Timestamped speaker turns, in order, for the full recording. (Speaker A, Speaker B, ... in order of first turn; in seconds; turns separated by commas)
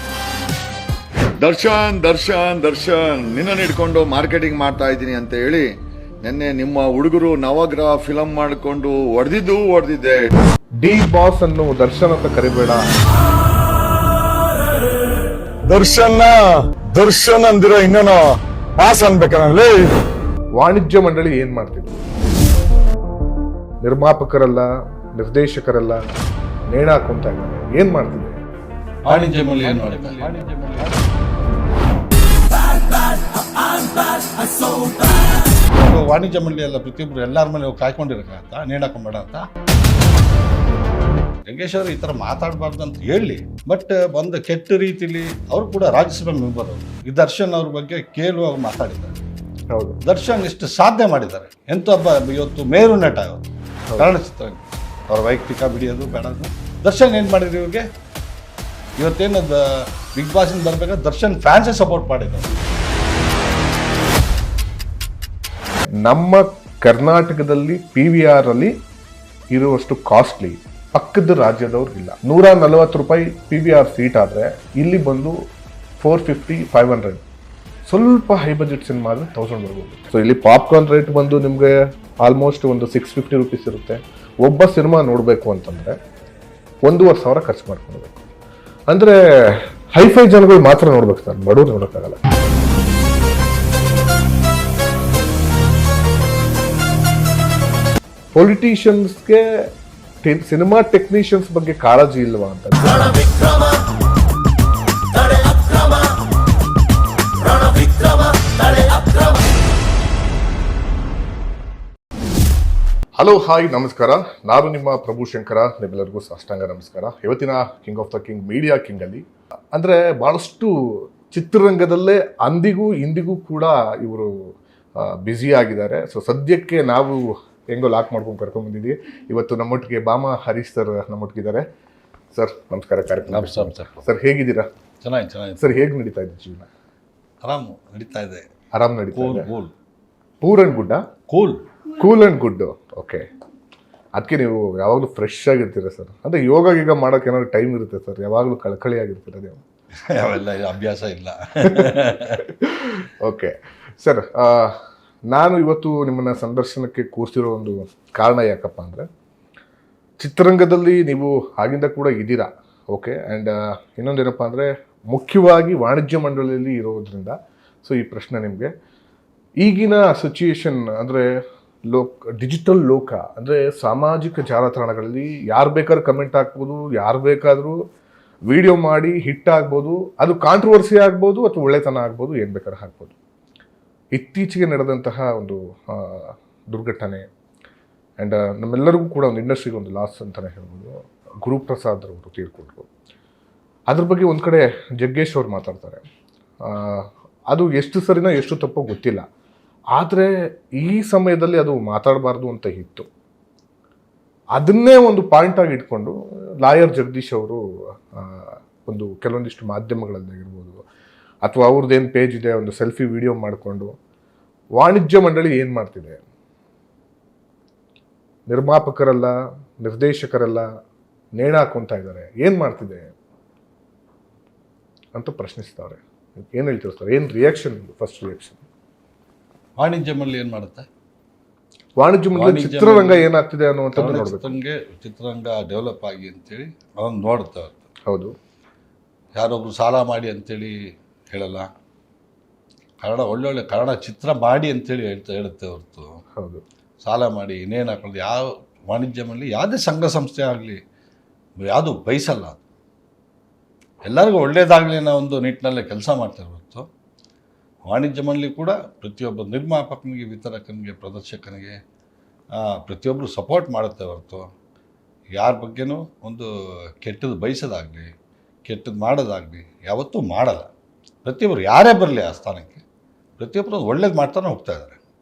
Speaker A: 1.4-5.7, Speaker A: 6.2-10.3, Speaker B: 10.8-12.9, Speaker C: 15.7-19.9, Speaker A: 15.7-16.0, Speaker A: 17.1-17.9, Speaker B: 20.6-22.0, Speaker B: 23.8-26.0, Speaker B: 26.7-28.4, Speaker D: 29.1-30.5, Speaker C: 29.1-30.9, Speaker C: 34.6-34.8, Speaker D: 35.7-39.5, Speaker D: 41.5-49.2, Speaker B: 49.7-50.0, Speaker D: 50.0-57.8, Speaker D: 59.0-62.6, Speaker B: 66.0-68.8, Speaker B: 69.5-75.4, Speaker B: 76.0-77.2, Speaker B: 77.9-86.0, Speaker B: 86.8-88.2, Speaker B: 88.9-92.2, Speaker B: 98.3-99.7, Speaker B: 100.2-103.4, Speaker B: 113.2-131.7, Speaker B: 132.3-134.7, Speaker D: 133.3-134.0, Speaker D: 135.0-135.6, Speaker B: 135.6-136.7, Speaker D: 137.4-138.4, Speaker B: 138.7-139.5, Speaker D: 139.1-139.7, Speaker B: 140.4-141.0, Speaker D: 141.3-141.6, Speaker B: 141.9-143.3, Speaker B: 144.2-149.6, Speaker D: 150.0-152.4, Speaker B: 151.7-159.1, Speaker B: 160.2-168.7, Speaker B: 169.6-171.3, Speaker B: 171.9-177.8, Speaker B: 178.5-183.1, Speaker B: 184.1-187.3, Speaker B: 188.2-192.9, Speaker B: 193.9-196.0, Speaker B: 196.6-199.2, Speaker B: 199.9-203.1, Speaker B: 204.5-207.6, Speaker B: 208.1-210.8, Speaker B: 211.4-213.9, Speaker B: 214.8-216.2, Speaker B: 218.5-220.7, Speaker B: 221.3-223.1, Speaker B: 225.1-228.6, Speaker D: 229.8-230.9, Speaker B: 232.0-234.5, Speaker D: 232.3-233.3, Speaker D: 233.9-237.7, Speaker B: 238.1-238.3, Speaker D: 239.3-241.7, Speaker D: 243.0-246.2, Speaker B: 246.4-246.6, Speaker D: 247.0-250.8, Speaker D: 251.6-252.6, Speaker D: 254.0-256.9, Speaker D: 257.9-261.8, Speaker D: 262.5-264.5, Speaker D: 265.3-268.1, Speaker D: 268.6-270.7, Speaker D: 271.2-272.8, Speaker D: 273.4-275.0